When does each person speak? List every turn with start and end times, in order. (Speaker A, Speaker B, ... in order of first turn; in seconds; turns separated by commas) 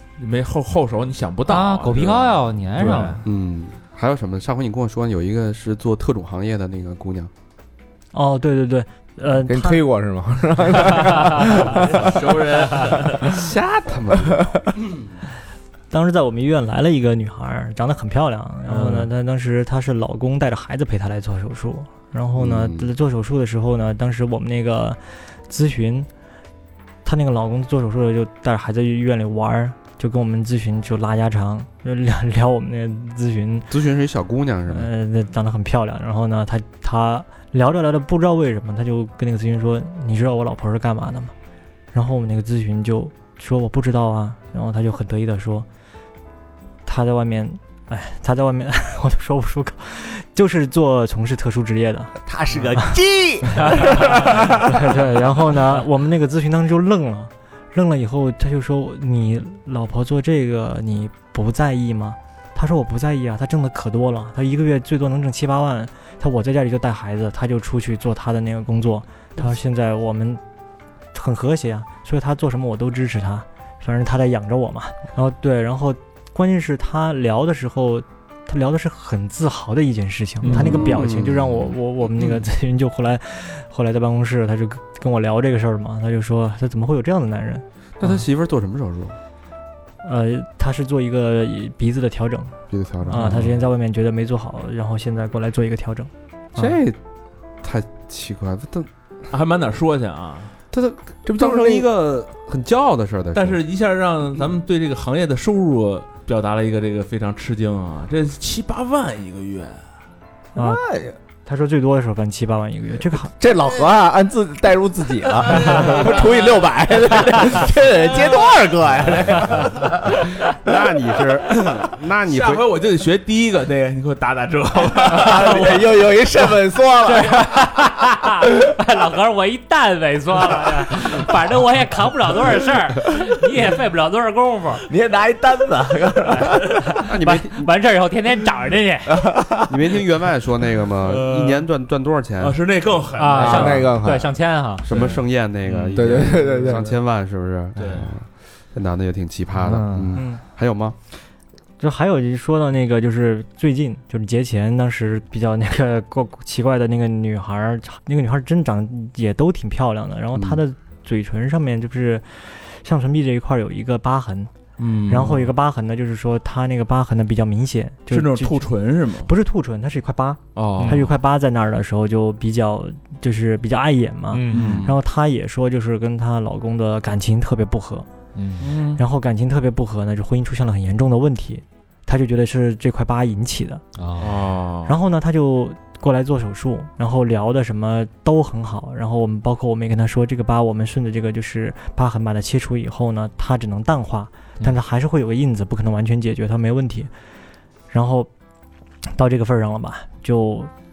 Speaker A: 0.2-3.2, Speaker B: 1.5-3.2, Speaker C: 3.2-7.3, Speaker D: 8.1-9.8, Speaker E: 9.5-12.5, Speaker A: 11.8-13.4, Speaker C: 12.9-15.0, Speaker D: 15.9-26.1, Speaker C: 22.4-22.9, Speaker D: 27.1-33.7, Speaker C: 33.7-34.9, Speaker D: 34.7-41.3, Speaker D: 41.9-45.7, Speaker D: 46.9-52.1, Speaker E: 52.3-54.5, Speaker D: 53.6-70.4, Speaker D: 71.1-87.6, Speaker B: 80.4-80.8, Speaker C: 80.5-82.4, Speaker C: 88.0-89.2, Speaker D: 90.0-96.8, Speaker C: 92.7-93.5, Speaker C: 96.6-97.0, Speaker C: 97.6-98.9, Speaker A: 99.3-100.5, Speaker C: 100.7-103.6, Speaker E: 101.3-101.9, Speaker A: 103.3-109.8, Speaker D: 110.5-110.8, Speaker E: 110.6-111.2, Speaker D: 111.5-113.3, Speaker E: 113.3-120.3, Speaker A: 115.6-116.3, Speaker C: 120.5-122.7, Speaker A: 121.6-125.9, Speaker E: 125.0-127.5, Speaker B: 127.0-134.8, Speaker E: 134.9-136.8, Speaker B: 136.3-139.3, Speaker C: 137.1-137.7, Speaker E: 139.1-139.7, Speaker C: 139.7-142.6, Speaker A: 141.0-141.7, Speaker A: 142.4-144.0, Speaker B: 143.2-144.8, Speaker E: 143.3-144.3, Speaker C: 144.8-151.0, Speaker A: 144.9-146.8, Speaker E: 145.9-146.9, Speaker A: 147.8-148.1, Speaker B: 149.6-150.2, Speaker D: 150.2-150.4, Speaker D: 151.8-164.5, Speaker C: 160.3-160.6, Speaker A: 164.8-165.5, Speaker D: 165.1-178.1, Speaker A: 168.1-169.3, Speaker A: 170.6-171.1, Speaker B: 170.8-171.1, Speaker B: 174.3-174.8, Speaker A: 174.5-174.9, Speaker B: 178.3-178.7, Speaker A: 178.6-179.0, Speaker D: 178.9-183.8, Speaker B: 184.0-184.4, Speaker A: 184.2-185.0, Speaker D: 184.9-197.1, Speaker D: 197.9-198.3, Speaker D: 199.1-200.7